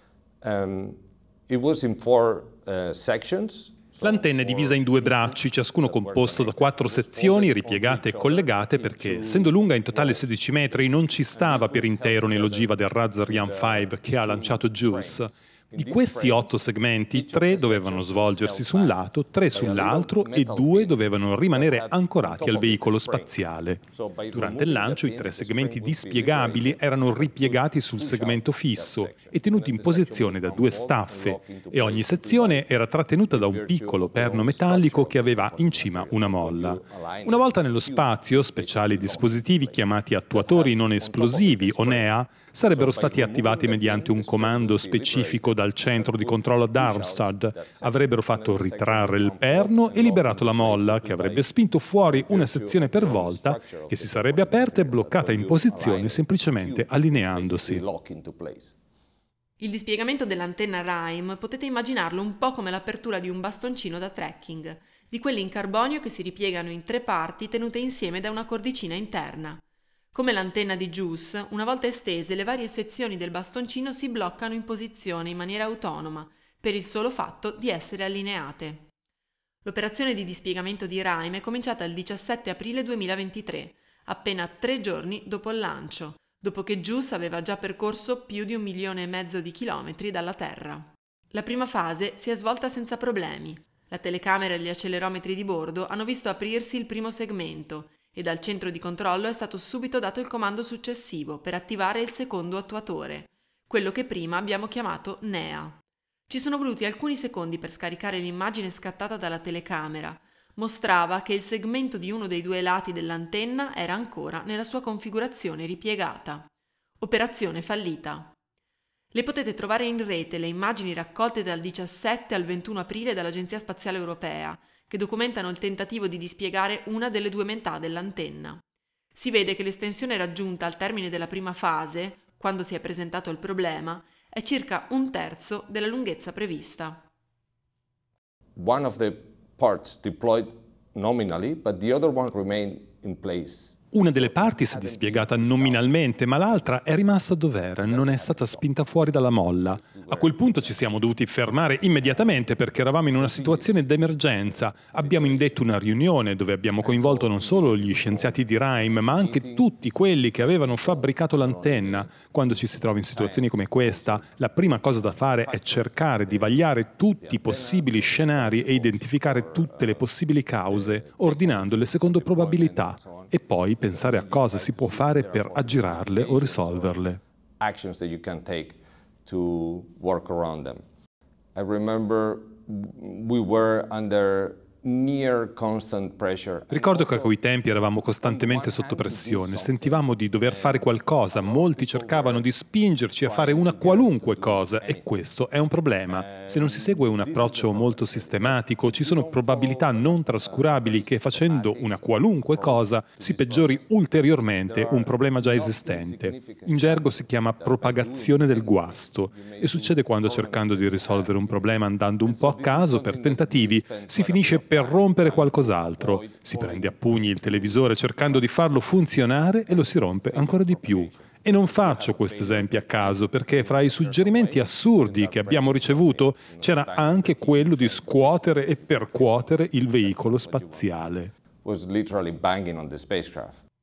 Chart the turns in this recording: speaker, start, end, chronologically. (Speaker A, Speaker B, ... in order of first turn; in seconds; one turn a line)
Speaker A: 0.4-23.3
Speaker B: 4.0-57.8
Speaker A: 23.9-32.7
Speaker A: 33.3-42.1
Speaker A: 42.6-58.7
Speaker C: 59.6-69.6
Speaker C: 70.1-78.8
Speaker C: 79.6-105.8
Speaker C: 106.3-116.5
Speaker C: 117.0-118.3
Speaker C: 119.1-128.6
Speaker C: 129.1-137.0
Speaker A: 138.6-147.1
Speaker B: 143.9-177.2
Speaker A: 147.6-155.8
Speaker A: 156.8-159.7
Speaker A: 160.3-170.1
Speaker A: 170.7-180.8
Speaker A: 181.5-187.4
Speaker B: 186.7-231.3
Speaker A: 187.9-192.5
Speaker A: 193.1-195.2
Speaker A: 196.1-233.6